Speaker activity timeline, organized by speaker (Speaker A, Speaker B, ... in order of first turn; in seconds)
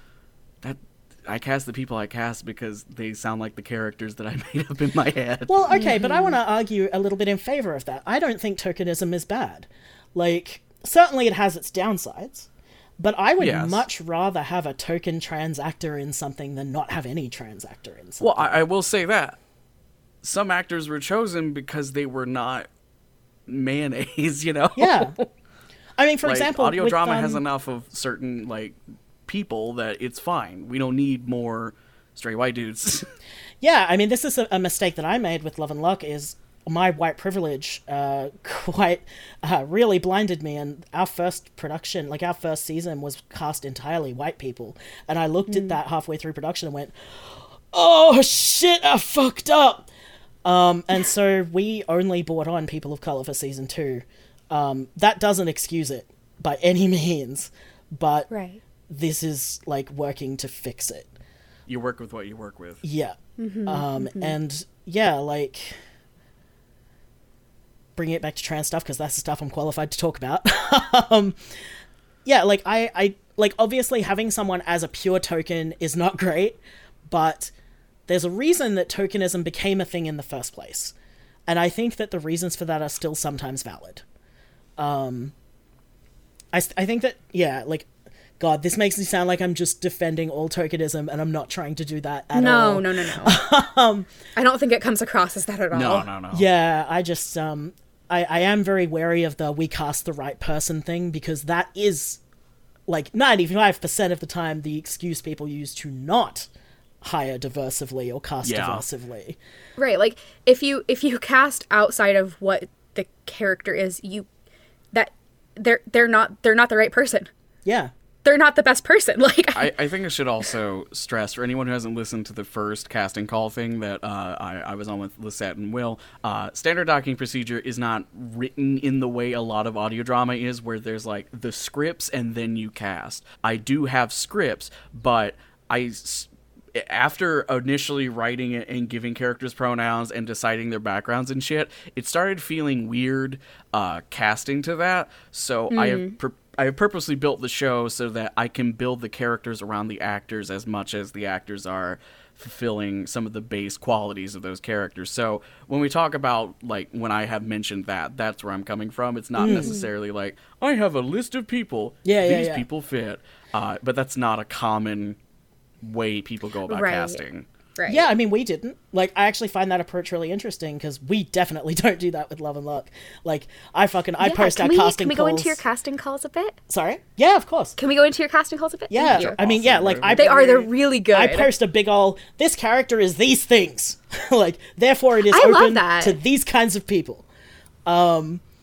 Speaker A: 0.6-5.8, 13.4-13.8, 18.2-19.4, 20.2-22.7, 23.5-25.2, 26.2-33.1, 61.7-62.8, 95.7-96.5, 108.4-108.8, 119.5-165.2, 165.8-167.5, 179.1-180.2
Speaker B: 5.5-18.6, 24.8-25.2, 26.0-27.4, 33.6-49.9, 50.4-58.3, 58.9-61.1, 62.8-65.8, 68.0-71.4, 72.2-77.5, 78.1-81.0, 81.5-84.0, 84.8-85.3, 86.5-87.9, 88.4-94.1, 96.3-102.2, 102.9-106.5, 107.0-109.4, 117.7-117.9, 159.4-159.7, 162.1-162.7, 167.9-175.6, 176.7-177.8, 178.9-187.3, 187.9-188.4
Speaker C: 5.7-6.4, 45.5-45.8, 58.3-58.6, 63.4-64.3, 92.3-93.4, 94.4-96.1, 109.8-114.3, 114.9-117.3, 118.2-119.7, 145.7-146.2, 159.5-159.9, 166.7-167.2, 167.8-168.1, 174.2-176.6, 177.8-179.4, 180.1-181.5, 185.3-186.2